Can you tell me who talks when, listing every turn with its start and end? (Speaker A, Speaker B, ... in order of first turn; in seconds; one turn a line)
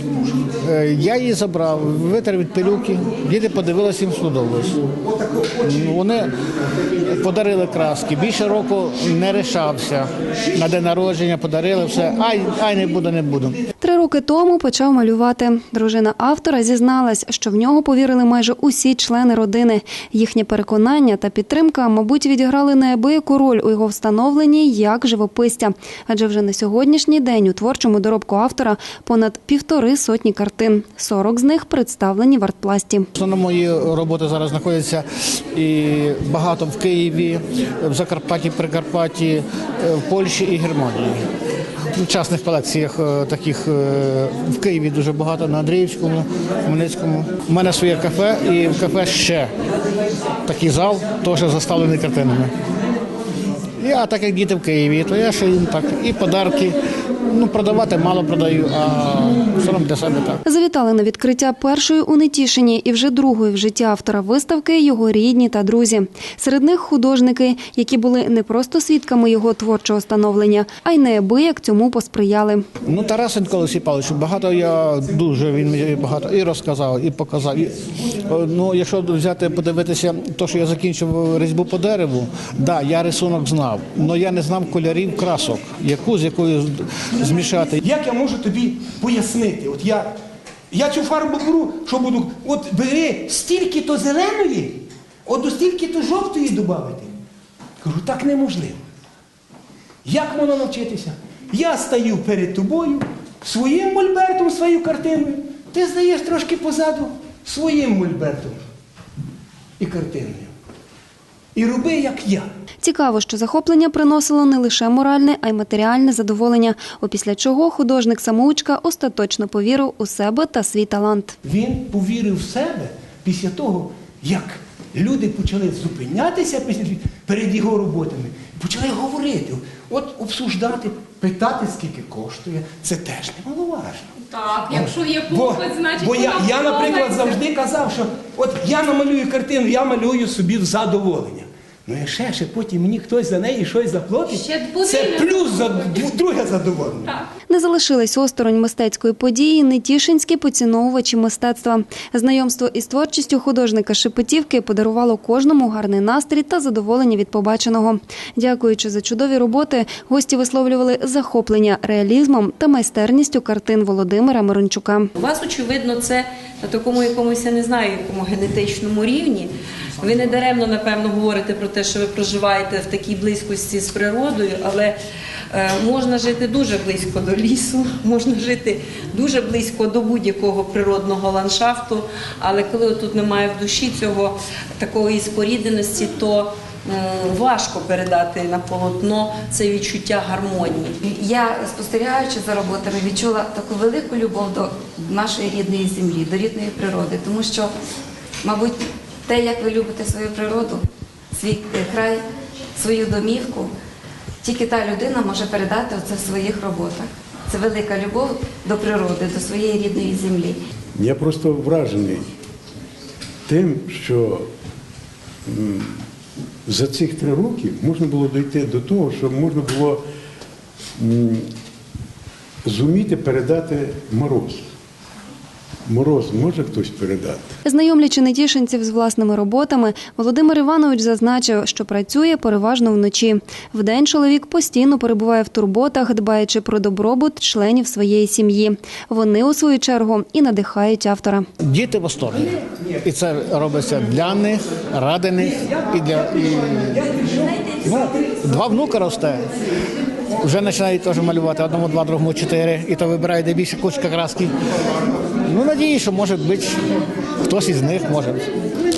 Speaker A: 0.6-4.9
Speaker A: 5.6-6.3
Speaker A: 7.0-13.6
Speaker B: 13.8-33.1
Speaker A: 33.1-41.3
Speaker A: 41.9-49.5
Speaker A: 50.5-52.5
Speaker A: 53.8-60.4
Speaker B: 60.5-72.7
Speaker A: 72.8-87.8
Speaker C: 87.9-90.2
Speaker C: 90.7-97.1
Speaker C: 97.8-98.8
Speaker C: 100.0-108.6
Speaker C: 109.8-110.5
Speaker C: 111.5-112.5
Speaker B: 112.8-121.4
Speaker C: 121.4-134.1
Speaker D: 134.3-137.4
Speaker C: 134.7-147.1
Speaker D: 144.3-145.9
Speaker B: 147.5-165.1
Speaker E: 165.2-175.0
Speaker E: 175.5-191.0
Speaker F: 191.0-197.8
Speaker F: 198.4-203.8
Speaker F: 204.4-210.6
Speaker G: 210.9-212.3
Speaker G: 213.5-214.5
Speaker G: 215.5-216.0
Speaker G: 216.7-220.0
Speaker G: 221.0-221.5
Speaker G: 222.7-224.6
Speaker G: 225.9-227.5
Speaker B: 227.7-241.5
Speaker A: 241.6-249.5
Speaker A: 250.3-254.5
Speaker A: 255.4-258.5